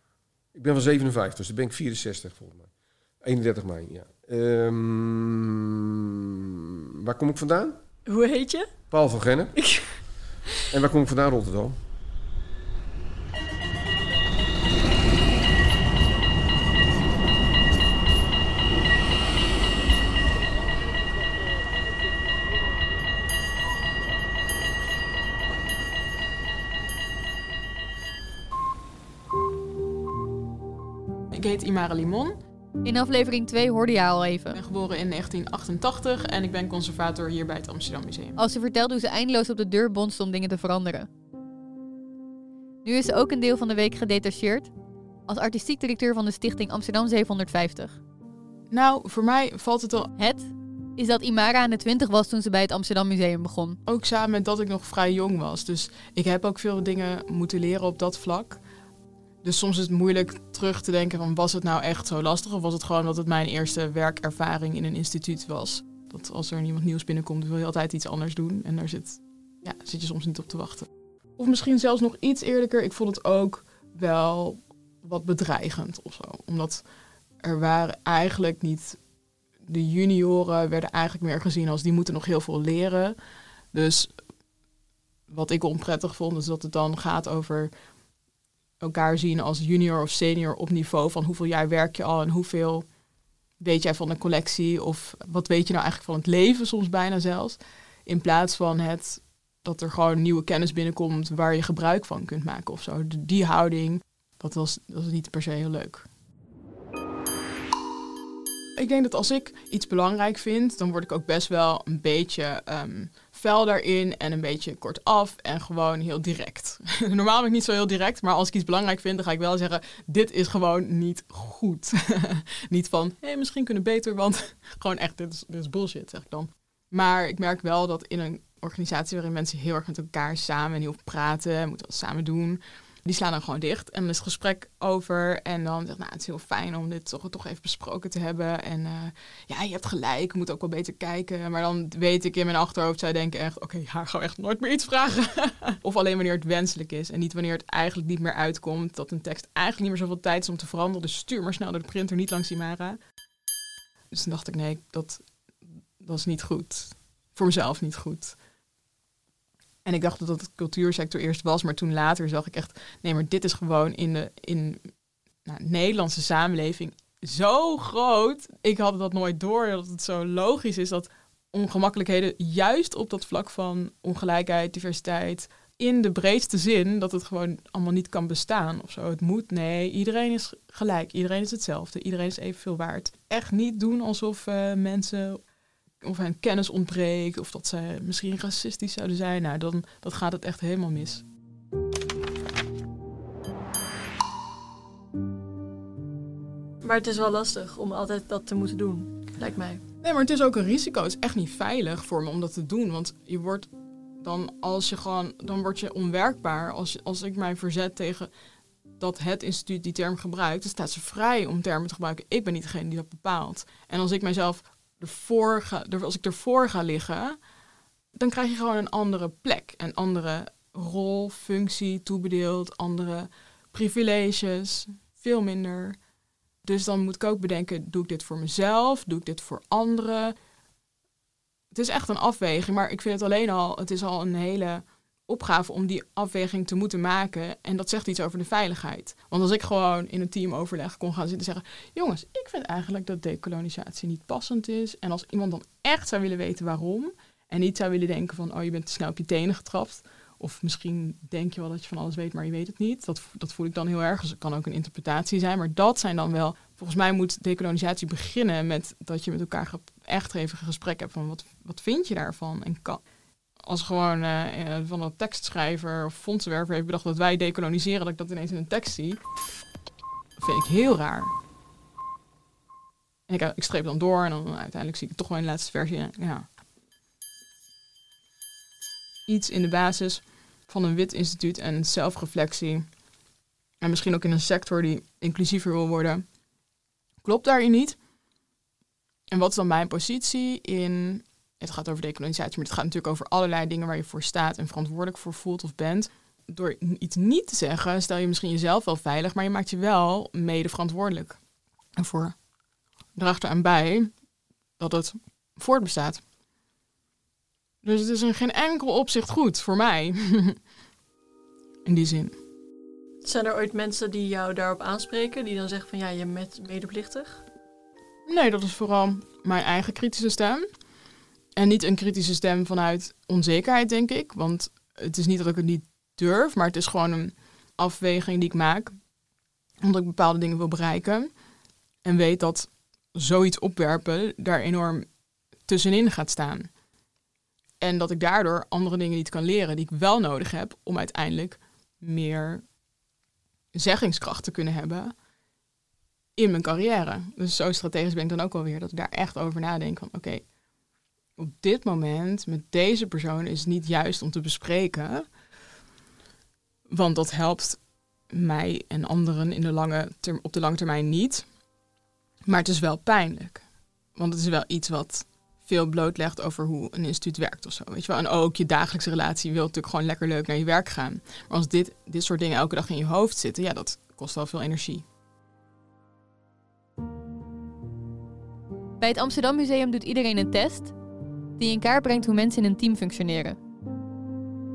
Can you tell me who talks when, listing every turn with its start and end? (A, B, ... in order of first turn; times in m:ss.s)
0:00.5-0:02.7 A
0:03.2-0:06.5 A
0:07.0-0:07.8 A
0:08.0-0:08.7 B
0:08.9-0:09.5 A
0:09.6-0:09.9 B
0:10.7-0:11.8 A
0:31.3-0:32.4 C
0:32.8-0:34.6 D
0:34.5-0:38.4 C
0:38.4-0:41.1 D
0:42.8-0:44.7 D
0:45.3-0:48.0 D
0:48.7-0:50.1 C
0:50.2-0:53.8 D
0:53.8-0:58.6 C
0:59.4-1:16.8 C
1:17.4-1:19.0 C
1:19.6-1:23.2 C
1:23.7-1:24.1 C
1:25.3-1:27.7 C
1:28.8-1:32.9 C
1:33.6-1:46.1 C
1:48.8-2:33.0 C
2:34.1-2:38.4 C
2:39.8-2:44.9 C
2:45.4-3:05.4 C
3:06.0-3:11.2 C
3:16.8-3:19.8 B
3:20.0-3:28.3 C
3:29.0-3:37.4 C
3:38.1-3:46.0 C
3:46.6-3:50.3 C
3:51.7-4:23.0 C
4:23.6-4:29.2 C
4:30.4-4:31.3 C
4:33.3-4:36.5 C
4:39.3-4:42.9 C
4:43.8-4:46.2 C
4:47.2-4:48.0 C
4:49.3-5:01.4 C
5:02.0-5:02.4 C
5:03.1-5:04.2 C
5:04.8-5:06.2 C
5:07.8-5:10.6 C
5:11.8-5:12.4 C
5:13.2-5:17.4 B
5:18.2-5:20.6 C
5:21.6-5:29.0 C
5:29.8-5:31.4 C
5:32.0-5:36.7 C
5:37.8-5:42.6 C
5:43.7-5:45.2 C
5:46.4-5:50.5 C
5:51.4-5:55.3 C
5:56.9-6:01.5 C
6:02.4-6:15.0 C
6:19.0-6:20.9 D
6:21.6-6:23.6 D